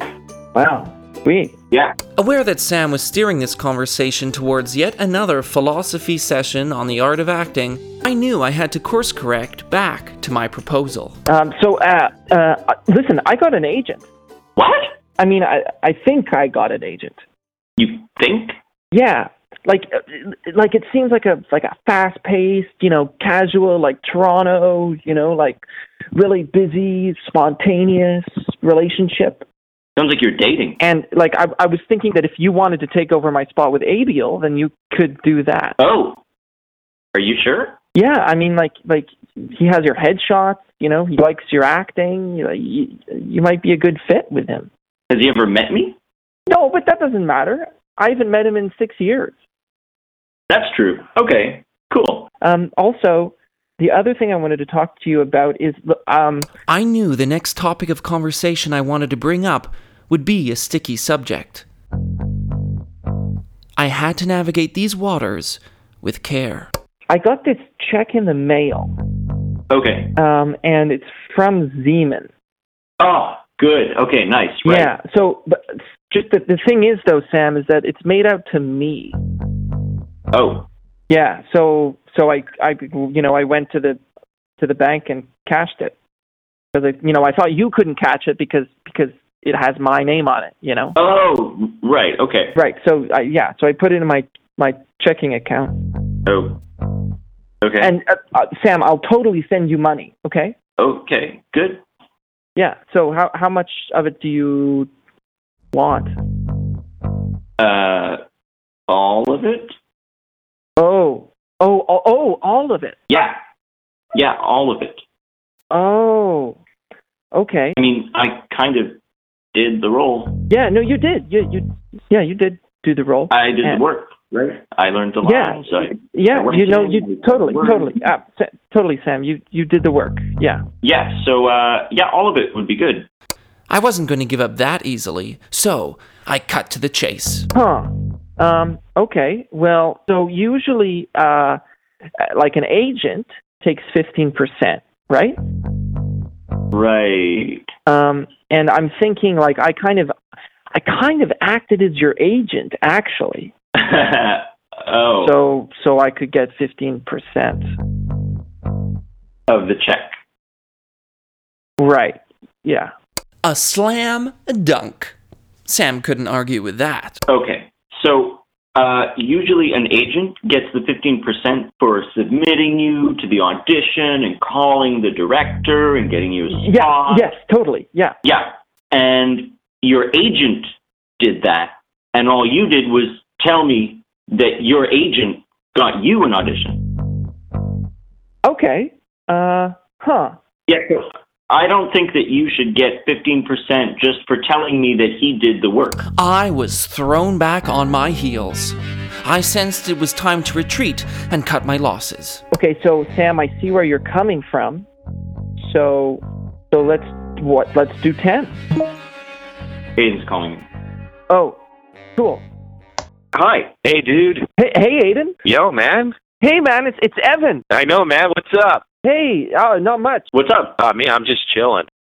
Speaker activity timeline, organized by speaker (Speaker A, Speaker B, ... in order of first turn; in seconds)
Speaker A: 0.5-1.5, 11.3-14.1, 15.2-17.2, 18.9-25.6, 26.1-29.4, 30.8-35.8, 38.0-44.7, 46.5-49.4, 52.4-56.5, 67.1-68.9, 70.2-72.3, 74.6-79.2, 81.1-84.0, 84.6-86.0, 86.7-91.0, 92.5-95.7, 97.8-100.5, 102.5-104.9, 105.7-106.1, 110.8-113.0, 115.7-116.6, 117.3-117.8, 120.5-123.8, 125.2-130.6, 137.5-141.6, 142.2-145.4, 147.9-150.1, 150.7-153.5, 155.2-157.7, 161.8-162.9, 176.5-178.1, 188.4-190.3, 202.5-204.9, 205.6-208.6, 211.3-211.6, 212.2-212.4, 214.6-215.4, 216.4-217.6, 219.0-220.2
Speaker B: 2.1-11.2, 56.7-61.6, 63.8-66.7, 133.7-137.5, 163.4-165.1, 165.7-167.2, 196.1-202.4
Speaker C: 14.6-14.9, 17.8-18.6, 30.0-30.8, 35.8-36.2, 37.1-37.8, 45.1-46.0, 50.5-52.3, 69.7-70.1, 73.0-74.9, 80.3-80.7, 91.0-92.5, 96.2-96.6, 97.6-97.9, 100.8-101.8, 107.6-108.2, 108.9-109.8, 113.1-113.4, 114.1-115.0, 117.8-119.0, 119.5-120.4, 123.3-128.0, 130.8-133.1, 146.7-147.7, 153.8-155.3, 159.5-160.2, 167.3-177.3, 178.2-186.9, 190.7-196.1, 210.0-210.7, 213.3-213.7, 220.3-220.8
Speaker D: 213.8-214.5, 215.4-216.2, 217.7-218.8, 220.8-221.9